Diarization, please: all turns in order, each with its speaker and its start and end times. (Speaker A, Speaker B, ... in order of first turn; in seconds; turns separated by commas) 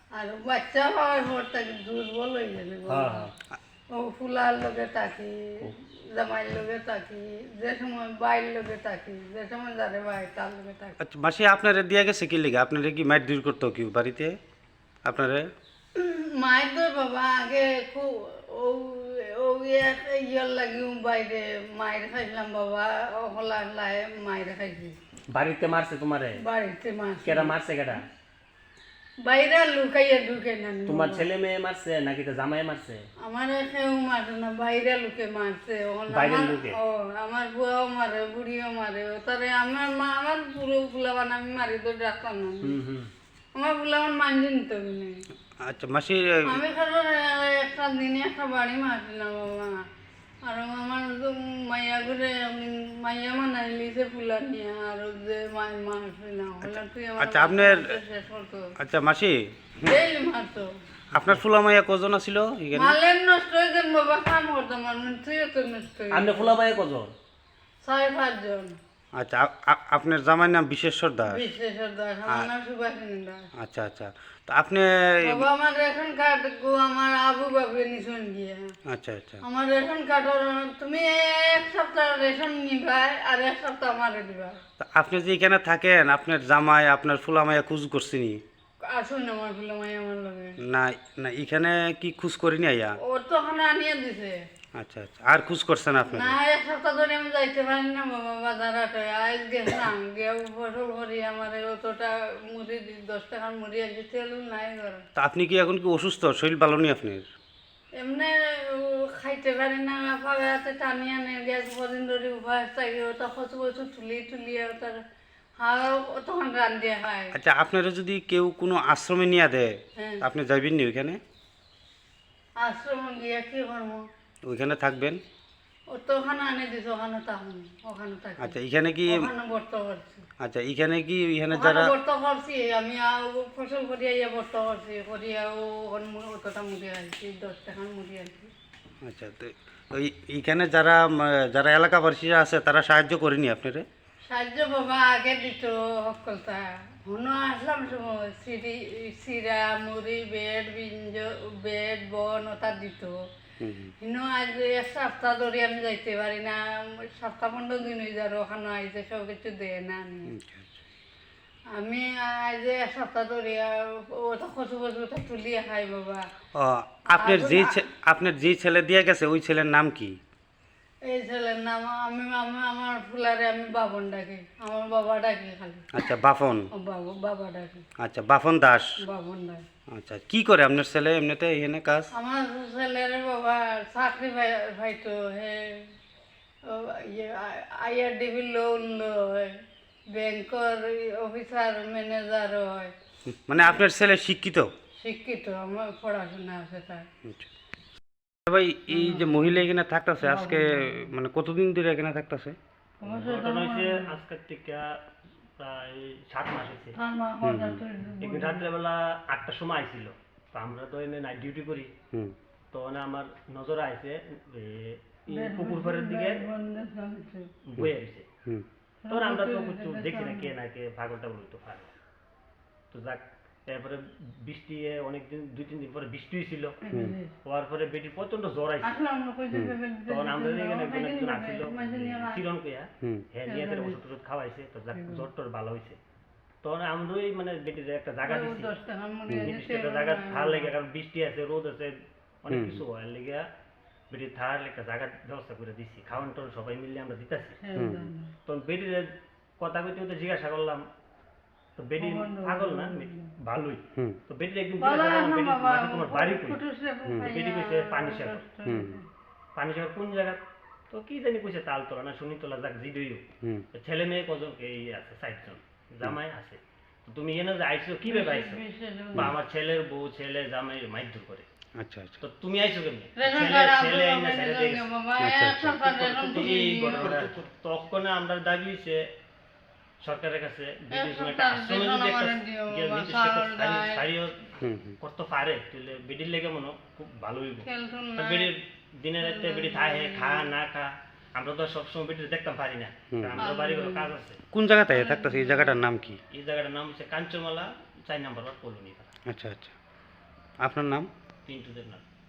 Speaker A: 0.1-3.3, Speaker B: 2.9-3.3, Speaker A: 3.9-10.9, Speaker C: 11.0-14.3, Speaker C: 15.0-15.5, Speaker A: 15.9-25.0, Speaker B: 25.3-26.4, Speaker A: 26.4-27.5, Speaker B: 27.2-28.1, Speaker A: 29.2-31.2, Speaker B: 30.9-33.0, Speaker A: 33.2-42.8, Speaker B: 36.1-36.8, Speaker B: 42.6-43.1, Speaker A: 43.5-45.2, Speaker C: 45.6-46.6, Speaker A: 46.5-49.8, Speaker A: 50.4-58.7, Speaker C: 56.6-57.8, Speaker C: 58.8-59.9, Speaker A: 59.9-60.7, Speaker C: 61.1-63.0, Speaker A: 62.7-66.5, Speaker B: 66.1-67.1, Speaker A: 67.8-68.8, Speaker C: 69.1-71.5, Speaker A: 71.3-73.5, Speaker C: 73.6-75.5, Speaker A: 75.2-78.7, Speaker C: 78.9-79.4, Speaker A: 79.4-84.6, Speaker C: 84.8-88.4, Speaker A: 88.9-90.6, Speaker C: 90.6-93.0, Speaker A: 93.0-94.4, Speaker C: 94.8-96.3, Speaker A: 96.1-105.0, Speaker C: 105.1-107.3, Speaker A: 108.0-115.0, Speaker A: 115.6-117.3, Speaker C: 117.3-119.7, Speaker A: 120.0-120.2, Speaker C: 120.2-121.2, Speaker A: 122.6-124.0, Speaker C: 124.4-125.2, Speaker A: 125.9-128.5, Speaker C: 128.4-129.2, Speaker A: 129.1-130.2, Speaker C: 130.4-131.9, Speaker A: 131.5-138.5, Speaker C: 139.0-143.8, Speaker A: 144.2-153.2, Speaker C: 153.6-153.9, Speaker A: 154.0-160.3, Speaker C: 160.3-160.7, Speaker A: 161.7-166.2, Speaker C: 166.5-170.2, Speaker A: 167.1-167.8, Speaker A: 171.1-175.9, Speaker C: 175.9-176.7, Speaker A: 176.7-177.8, Speaker C: 178.0-178.9, Speaker A: 179.0-179.6, Speaker C: 179.9-182.1, Speaker A: 182.1-185.9, Speaker A: 186.7-189.6, Speaker A: 190.1-192.9, Speaker C: 193.3-194.7, Speaker A: 193.6-193.8, Speaker A: 195.0-197.1, Speaker C: 198.4-202.6, Speaker A: 198.9-199.5, Speaker A: 200.2-201.1, Speaker A: 203.0-204.1, Speaker B: 203.0-204.9, Speaker B: 205.6-206.9, Speaker A: 206.9-208.6, Speaker C: 207.4-207.8, Speaker B: 208.2-211.9, Speaker B: 212.7-216.4, Speaker A: 215.3-217.5, Speaker B: 217.7-218.3, Speaker A: 219.0-220.5, Speaker B: 219.1-221.9, Speaker B: 222.9-226.8, Speaker A: 226.8-227.3, Speaker B: 227.4-229.0, Speaker A: 228.8-232.5, Speaker B: 230.1-236.0, Speaker A: 233.4-234.0, Speaker A: 234.9-235.3, Speaker B: 236.6-238.7, Speaker A: 238.2-240.7, Speaker C: 239.3-239.5, Speaker B: 239.3-243.4, Speaker C: 242.5-242.8, Speaker B: 244.1-247.6, Speaker A: 247.6-248.3, Speaker C: 247.8-248.1, Speaker B: 248.4-250.8, Speaker B: 251.8-256.6, Speaker A: 252.0-253.3, Speaker A: 254.8-259.0, Speaker B: 257.2-258.4, Speaker C: 258.6-259.0, Speaker B: 259.6-268.6, Speaker A: 268.0-269.3, Speaker B: 269.1-271.4, Speaker C: 271.8-272.2, Speaker B: 272.2-274.9, Speaker A: 273.1-277.3, Speaker C: 275.2-275.8, Speaker B: 275.9-279.0, Speaker B: 280.0-284.5, Speaker A: 280.9-284.1, Speaker C: 284.6-285.0, Speaker B: 285.0-294.4, Speaker A: 287.6-288.5, Speaker A: 289.2-290.5, Speaker C: 293.1-293.4, Speaker A: 293.4-294.1, Speaker C: 294.5-296.2, Speaker A: 294.9-295.8, Speaker B: 296.3-299.1, Speaker C: 299.2-299.7, Speaker C: 300.6-301.1, Speaker B: 301.4-302.0